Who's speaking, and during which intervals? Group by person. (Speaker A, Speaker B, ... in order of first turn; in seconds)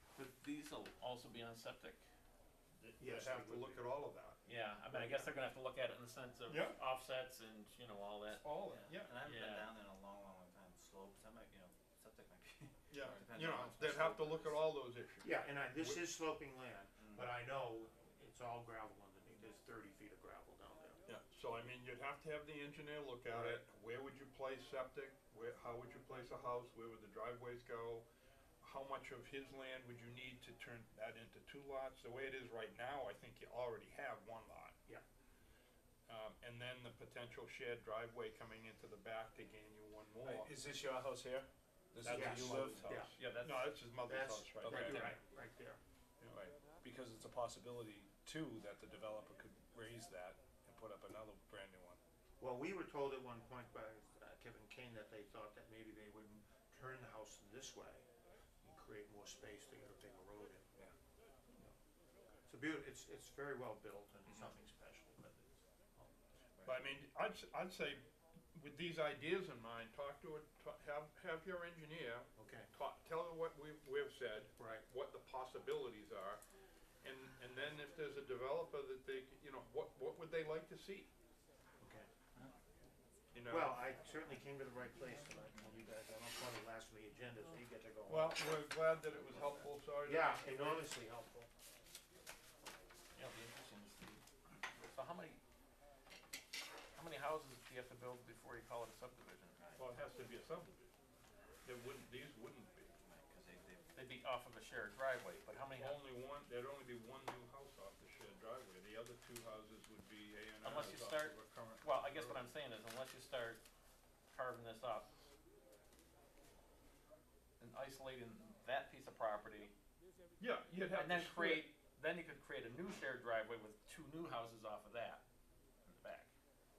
Speaker A: 0.1-2.0, 4.5-8.5, 9.2-9.7, 23.3-23.6, 43.2-43.6, 93.2-95.4, 96.9-99.6, 103.9-106.0, 110.6-113.6, 114.3-115.3, 117.6-119.8, 120.9-125.2, 125.9-126.3
Speaker B: 2.8-5.3, 6.5-6.8, 8.3-9.2, 12.9-16.0, 21.1-28.1, 28.6-34.8, 36.1-40.5, 42.0-45.1, 46.2-46.5, 66.7-76.4, 77.0-81.1, 83.3-83.8, 88.1-90.9, 99.8-100.9, 101.7-103.0, 105.8-112.5, 120.4-121.7
Speaker C: 3.0-3.8, 15.2-21.0, 42.1-43.1, 44.0-45.8, 52.4-58.0, 58.6-60.9, 62.5-66.1, 72.4-72.7, 74.6-74.8, 81.8-82.1, 83.5-88.4, 90.0-91.5
Speaker D: 8.7-14.7, 17.0-17.3, 99.6-99.8, 103.0-103.9
Speaker E: 40.2-43.1, 44.6-45.1, 46.8-52.0